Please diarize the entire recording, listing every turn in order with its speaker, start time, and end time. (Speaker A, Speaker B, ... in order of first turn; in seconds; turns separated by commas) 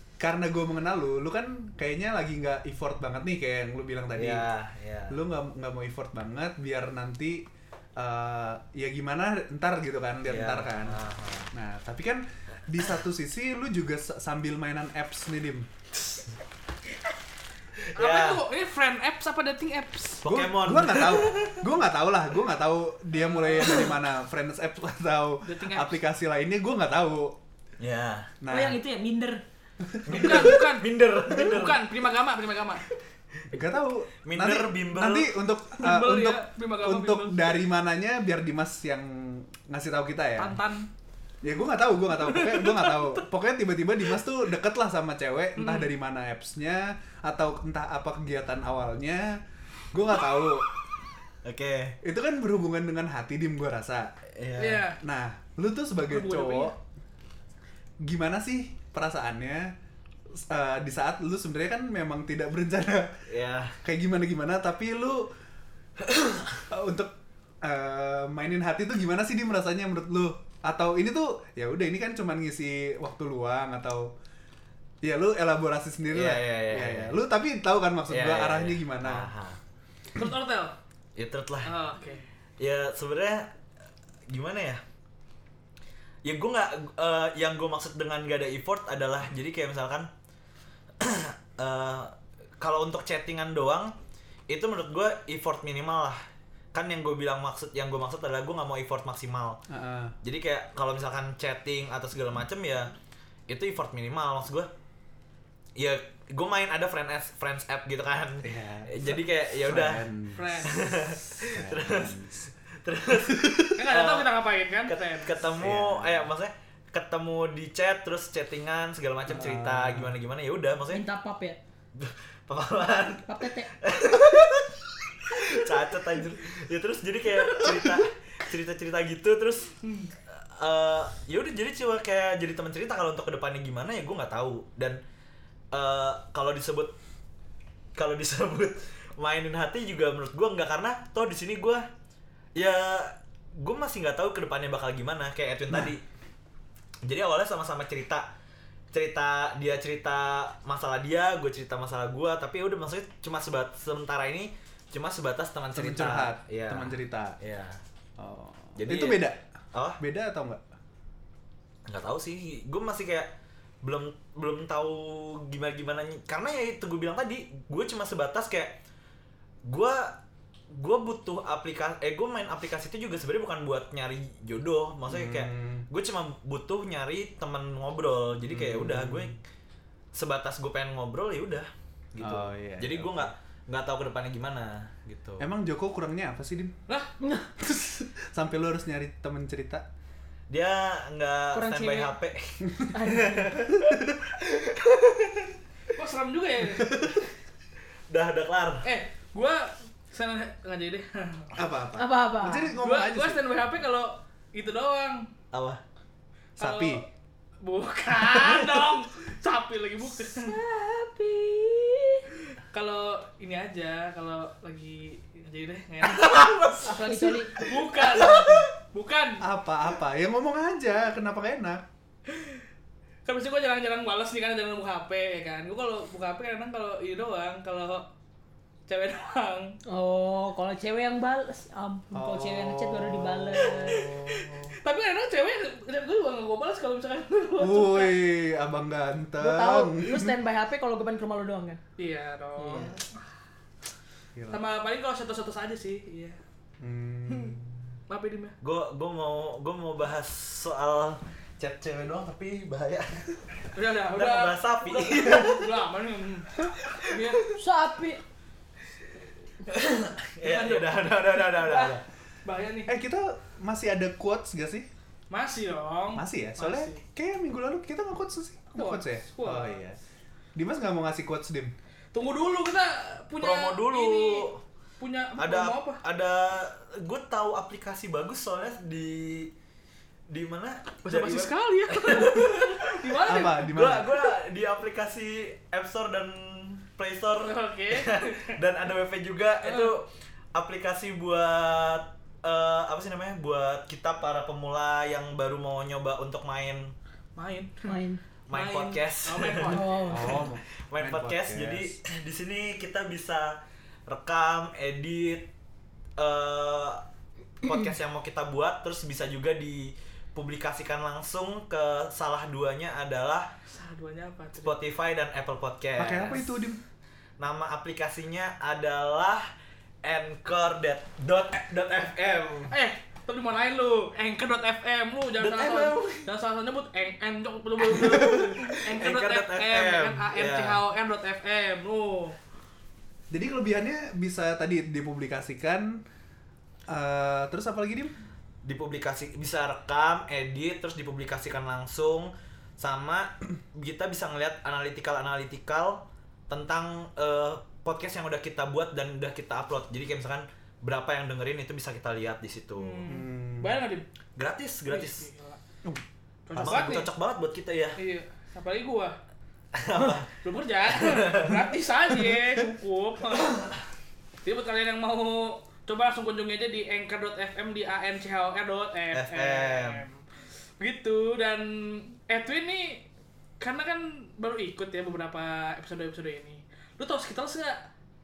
Speaker A: 0.2-4.5, Speaker B: 4.2-5.2, Speaker A: 5.1-11.0, Speaker B: 10.2-11.5, Speaker A: 11.5-15.7, Speaker B: 17.9-18.4, Speaker C: 17.9-20.2, Speaker B: 20.2-21.6, Speaker A: 20.2-27.4, Speaker C: 23.3-23.8, Speaker C: 25.4-26.0, Speaker B: 27.8-28.3, Speaker A: 28.4-28.8, Speaker D: 28.5-29.4, Speaker A: 29.9-30.6, Speaker B: 30.1-31.8, Speaker C: 30.1-32.8, Speaker A: 33.5-40.6, Speaker B: 34.2-35.3, Speaker C: 35.8-37.6, Speaker C: 40.4-40.9, Speaker A: 41.4-49.4, Speaker C: 42.2-43.2, Speaker C: 45.6-45.9, Speaker A: 49.9-50.7, Speaker B: 51.4-52.0, Speaker A: 52.0-54.1, Speaker B: 54.4-54.9, Speaker C: 54.6-55.0, Speaker A: 55.0-56.8, Speaker C: 56.1-56.7, Speaker A: 58.0-59.7, Speaker A: 60.3-63.1, Speaker B: 63.3-63.8, Speaker A: 63.8-65.3, Speaker B: 66.1-66.5, Speaker A: 66.7-74.1, Speaker A: 75.0-79.3, Speaker B: 76.1-77.2, Speaker B: 78.1-79.6, Speaker C: 80.1-80.7, Speaker B: 81.2-81.7, Speaker C: 81.6-82.2, Speaker B: 82.6-83.5, Speaker B: 84.3-84.8, Speaker B: 86.2-90.1, Speaker B: 91.0-93.9, Speaker B: 94.5-96.2, Speaker B: 96.7-99.6, Speaker A: 99.7-100.1, Speaker B: 100.2-102.9, Speaker B: 103.5-104.7, Speaker B: 105.8-110.0, Speaker A: 108.4-110.5, Speaker C: 110.3-110.9, Speaker B: 110.6-114.3, Speaker A: 111.3-112.3, Speaker A: 113.2-113.7, Speaker C: 113.7-115.4, Speaker B: 114.8-121.0, Speaker A: 115.6-116.3, Speaker A: 119.3-120.1, Speaker D: 120.9-121.6, Speaker B: 122.0-129.7, Speaker D: 123.2-123.7, Speaker A: 127.6-127.9, Speaker C: 129.8-130.1, Speaker B: 130.3-135.0, Speaker B: 135.7-136.9, Speaker B: 137.9-141.8, Speaker B: 142.6-146.0, Speaker B: 147.0-148.3, Speaker B: 148.9-157.8, Speaker A: 155.7-157.4, Speaker A: 158.2-159.4, Speaker B: 158.7-160.0, Speaker A: 160.0-160.6, Speaker B: 161.9-168.8, Speaker B: 169.7-170.2, Speaker B: 170.7-179.4, Speaker A: 175.1-175.8, Speaker A: 178.5-179.4, Speaker B: 180.1-185.5, Speaker A: 182.2-183.3, Speaker A: 185.4-186.7, Speaker D: 187.2-187.5, Speaker A: 187.6-189.8, Speaker B: 190.5-195.1, Speaker D: 191.5-192.1, Speaker D: 192.9-193.6, Speaker C: 195.9-197.1, Speaker A: 196.8-197.2, Speaker B: 198.1-198.9, Speaker C: 198.8-201.5, Speaker A: 201.5-203.4, Speaker D: 201.9-202.8, Speaker C: 202.8-205.3, Speaker B: 205.5-205.8, Speaker A: 206.6-207.0, Speaker C: 206.6-207.1, Speaker C: 207.6-210.6, Speaker D: 210.3-212.2, Speaker C: 212.7-219.4, Speaker B: 216.0-218.6, Speaker D: 216.8-217.6, Speaker A: 219.4-221.8, Speaker C: 222.3-222.6, Speaker C: 223.2-228.1, Speaker C: 228.9-229.8, Speaker D: 229.9-234.1, Speaker A: 232.1-234.7, Speaker C: 233.7-238.2, Speaker A: 237.6-240.3, Speaker D: 239.4-241.8, Speaker C: 242.0-243.1, Speaker D: 242.6-243.0, Speaker A: 244.3-244.6, Speaker C: 244.5-246.4, Speaker A: 246.8-247.8, Speaker C: 248.1-248.5, Speaker B: 248.6-253.5, Speaker C: 253.7-257.5, Speaker B: 254.1-255.7, Speaker D: 257.5-258.2, Speaker B: 259.6-262.0, Speaker C: 260.4-262.9, Speaker A: 262.9-264.9, Speaker C: 265.3-267.0, Speaker A: 266.1-270.0, Speaker C: 268.8-269.8, Speaker A: 270.5-271.7, Speaker C: 272.1-274.5, Speaker B: 273.4-274.6, Speaker C: 275.0-276.0, Speaker B: 275.4-279.5, Speaker B: 280.3-296.9, Speaker C: 281.0-284.0, Speaker A: 283.2-284.2, Speaker C: 287.4-288.6, Speaker C: 289.6-289.9, Speaker C: 297.4-297.9, Speaker D: 297.8-298.2, Speaker B: 298.5-299.8, Speaker C: 298.5-300.4, Speaker D: 299.6-300.5, Speaker A: 300.0-302.0, Speaker B: 300.9-305.5, Speaker B: 306.2-307.0, Speaker B: 307.6-313.5, Speaker C: 313.7-314.8, Speaker B: 314.6-316.5, Speaker A: 316.0-316.8, Speaker B: 317.4-319.5, Speaker B: 320.0-322.7, Speaker C: 322.7-332.4, Speaker B: 325.4-326.3, Speaker B: 328.0-330.8, Speaker A: 333.3-336.0, Speaker A: 336.9-338.1, Speaker B: 338.6-353.1, Speaker C: 352.8-354.1, Speaker A: 353.1-353.8, Speaker B: 354.4-355.3, Speaker C: 354.9-355.6, Speaker C: 356.5-357.1, Speaker B: 356.5-358.0, Speaker C: 358.0-359.2, Speaker B: 359.7-360.3, Speaker C: 360.3-363.7, Speaker B: 360.9-361.6, Speaker C: 364.4-370.2, Speaker B: 369.1-370.0, Speaker C: 370.8-373.1, Speaker C: 373.6-377.8